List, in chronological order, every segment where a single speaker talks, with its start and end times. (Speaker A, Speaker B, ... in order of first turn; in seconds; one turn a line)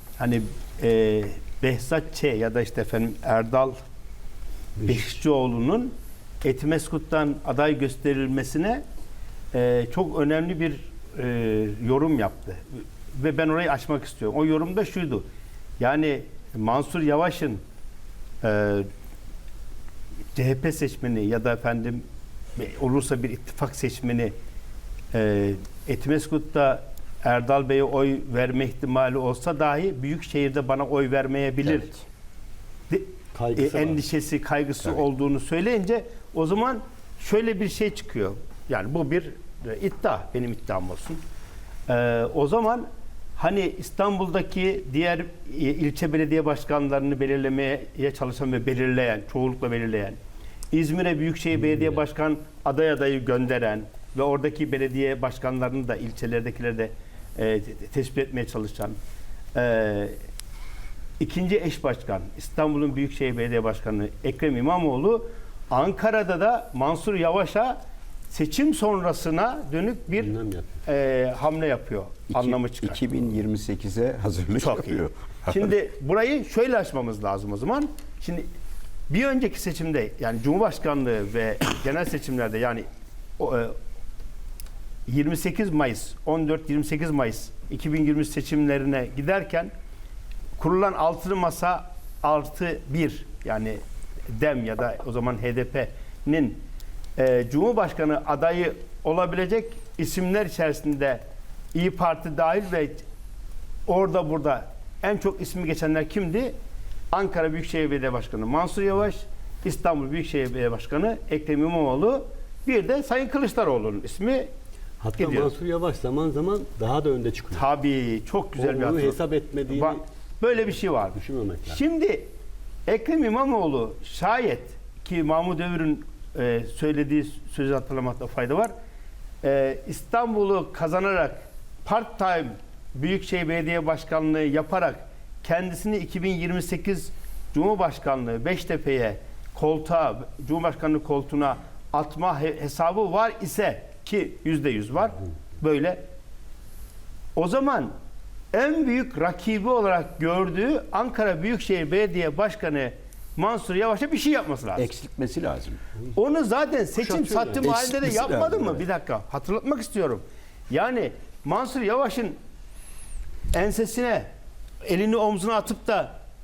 Speaker A: 0.2-3.8
Speaker A: 4.8-5.9
Speaker A: 6.4-8.8
Speaker A: 9.5-15.2
Speaker A: 15.8-17.6
Speaker A: 18.4-18.9
Speaker A: 20.4-22.0
Speaker A: 22.6-24.3
Speaker A: 25.1-32.0
Speaker A: 32.9-41.2
Speaker B: 33.3-34.0
Speaker A: 41.9-42.9
Speaker A: 43.4-50.2
Speaker A: 50.7-59.0
Speaker A: 59.5-60.2
Speaker A: 61.2-67.8
Speaker A: 68.3-73.1
Speaker B: 70.2-70.8
Speaker C: 72.3-75.1
Speaker A: 74.6-78.5
Speaker A: 79.1-82.8
Speaker A: 83.4-83.8
Speaker A: 85.1-89.7
Speaker A: 90.6-93.8
Speaker A: 94.3-96.6
Speaker A: 97.2-101.2
Speaker A: 101.7-103.0
Speaker A: 103.9-106.5
Speaker A: 107.1-114.5
Speaker B: 115.0-117.7
Speaker A: 115.2-115.5
Speaker A: 117.5-122.3
Speaker B: 118.5-120.0
Speaker B: 121.1-121.8
Speaker A: 122.9-128.7
Speaker A: 129.4-146.0
Speaker A: 147.3-147.9
Speaker A: 148.5-154.9
Speaker C: 154.8-155.8
Speaker A: 156.1-162.4
Speaker C: 157.3-158.8
Speaker A: 163.5-164.3
Speaker A: 164.8-166.1